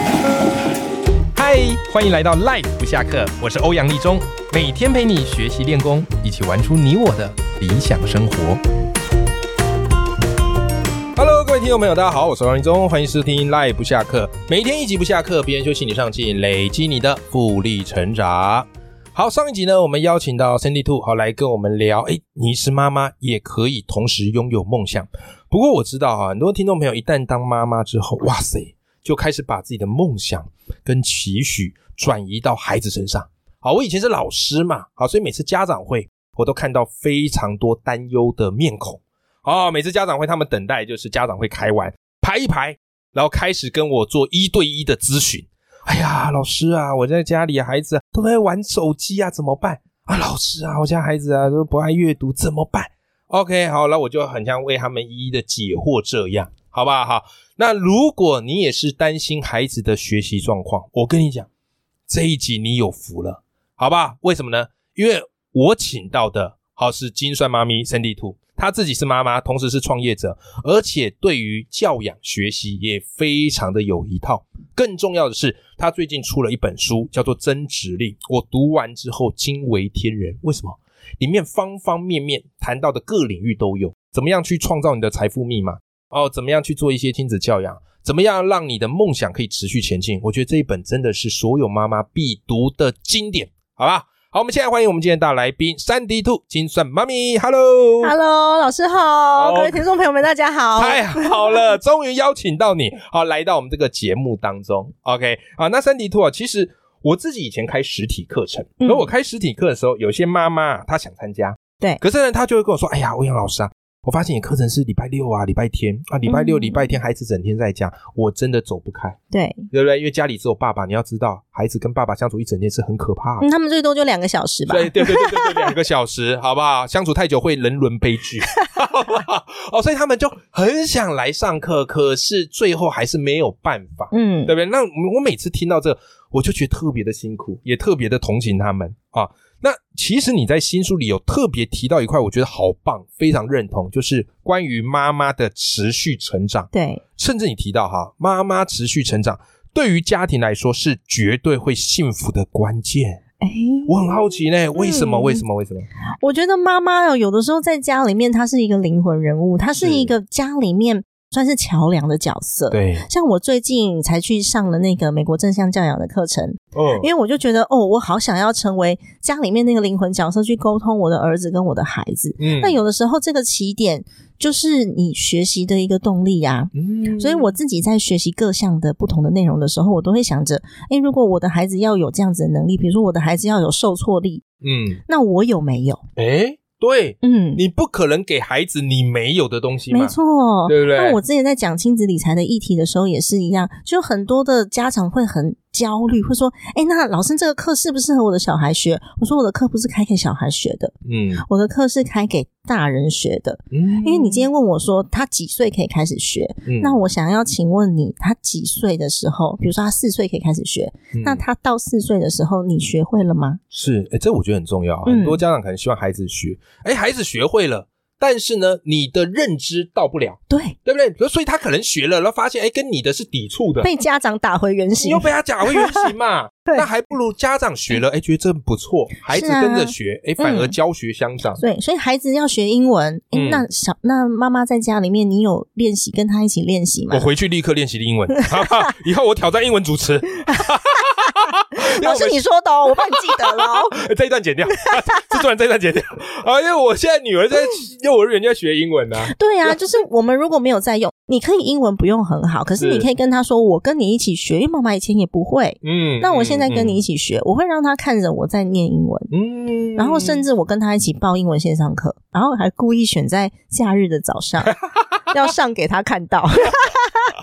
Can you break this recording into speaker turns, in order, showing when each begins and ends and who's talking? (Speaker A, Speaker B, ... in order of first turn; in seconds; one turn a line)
Speaker A: 1.3-8.6
Speaker A: 11.2-61.5
Speaker A: 62.1-98.1
Speaker B: 98.0-101.5
Speaker A: 99.3-99.9
Speaker A: 100.8-119.2
Speaker B: 108.8-109.1
Speaker B: 116.2-116.9
Speaker B: 119.3-119.7
Speaker A: 119.7-123.5
Speaker B: 123.4-125.7
Speaker A: 124.7-153.2
Speaker B: 134.1-134.5
Speaker B: 146.7-147.0
Speaker B: 153.4-155.4
Speaker A: 153.8-155.9
Speaker B: 156.2-184.4
Speaker A: 159.8-160.1
Speaker A: 162.7-163.1
Speaker A: 166.7-167.1
Speaker A: 172.4-172.8
Speaker A: 176.7-177.5
Speaker A: 184.6-185.0
Speaker B: 185.1-186.0
Speaker A: 186.2-190.2
Speaker B: 187.2-187.6
Speaker B: 189.9-213.6
Speaker A: 190.7-191.2
Speaker A: 201.0-201.4
Speaker A: 203.7-204.5
Speaker A: 206.6-207.0
Speaker A: 211.1-211.4
Speaker A: 213.7-223.9
Speaker B: 215.1-215.4
Speaker B: 220.5-220.8
Speaker B: 223.8-226.1
Speaker A: 225.0-231.6
Speaker B: 229.3-230.8
Speaker B: 231.6-237.3
Speaker A: 233.3-233.6
Speaker A: 237.1-249.7
Speaker B: 238.3-238.6
Speaker B: 241.8-243.9
Speaker B: 249.2-259.3
Speaker A: 252.8-253.1
Speaker A: 255.8-257.0
Speaker A: 259.3-260.4
Speaker B: 260.0-264.7
Speaker A: 264.7-265.0
Speaker B: 265.3-267.3